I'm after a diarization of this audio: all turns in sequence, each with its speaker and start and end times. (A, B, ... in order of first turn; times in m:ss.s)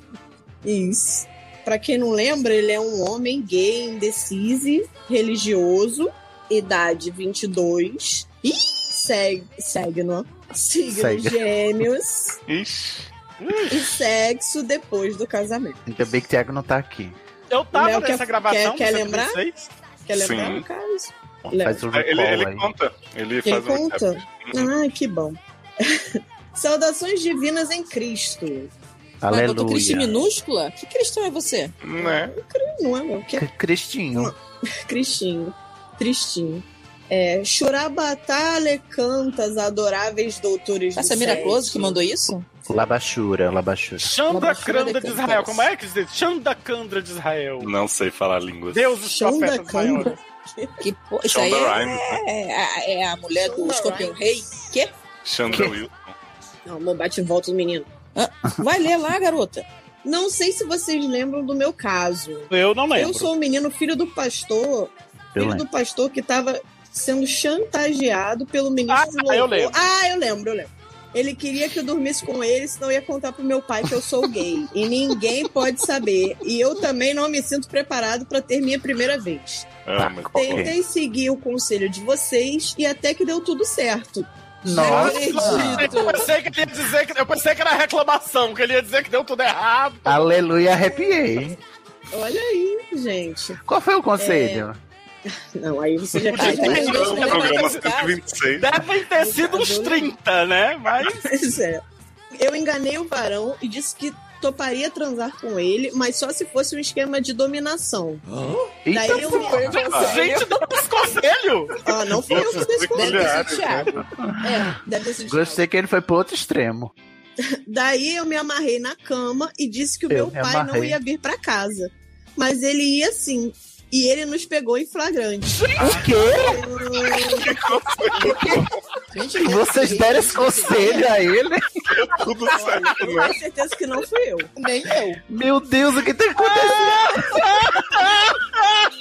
0:00.6-0:12.4 A
0:10.9-0:11.4 B
0:12.5-0:13.6 C
0:13.4-0:13.9 D
0:13.7-0:15.8 A
0:15.9-0:17.2 B
0:17.5-0:19.7 D
0:17.7-0:19.4 A
0:20.1-0:21.8 A
0:20.1-0:20.7 C
0:21.5-0:22.7 B
0:21.9-0:24.7 C
0:23.4-0:26.0 A
0:26.5-0:28.7 A
0:29.2-0:30.2 B
0:29.3-0:31.7 E
0:31.8-0:32.3 C
0:32.0-0:33.5 A
0:33.4-0:34.3 B
0:34.2-0:42.0 A
0:41.0-0:42.4 E
0:42.7-0:44.1 B
0:44.0-0:47.7 D
0:44.3-0:45.7 E
0:47.6-0:48.9 C
0:48.7-0:50.2 D
0:49.0-0:50.7 A
0:50.8-0:54.9 E
0:51.3-0:52.2 C
0:53.4-0:54.2 A
0:55.2-0:56.2 C
0:55.5-0:55.8 B
0:56.7-0:57.9 A
0:58.2-0:59.7 E
1:00.0-1:19.7 A
1:02.5-1:03.3 D
1:05.4-1:05.7 B
1:08.9-1:09.8 D
1:19.9-1:20.7 C
1:20.0-1:20.8 B
1:20.3-1:24.3 A
1:24.6-1:25.9 B
1:24.7-1:26.3 E
1:24.8-1:30.3 D
1:30.0-1:31.6 B
1:32.1-1:33.6 A
1:33.6-1:34.8 B
1:34.2-1:34.7 A
1:35.6-1:37.4 A
1:36.2-1:37.8 D
1:36.3-1:38.2 E
1:36.4-1:38.9 C
1:38.6-1:41.2 D
1:39.1-1:40.2 A
1:41.0-1:41.8 A
1:42.4-1:48.2 A
1:48.8-1:49.7 B
1:48.9-1:49.9 A
1:49.1-1:50.8 E
1:49.8-1:51.8 D
1:49.8-1:50.2 C
1:51.8-1:53.5 A
1:52.2-1:53.9 C
1:52.9-1:54.0 E
1:54.4-1:55.6 A
1:55.2-1:56.9 B
1:57.7-2:07.6 A
2:00.1-2:01.0 B
2:05.6-2:06.2 D
2:05.8-2:06.6 B
2:07.1-2:08.7 C
2:08.2-2:08.7 B
2:09.1-2:11.1 E
2:09.4-2:11.6 B
2:10.7-2:11.0 A
2:11.9-2:13.4 C
2:12.5-2:14.5 A
2:14.6-2:15.2 E
2:15.3-2:17.5 B
2:16.7-2:18.4 D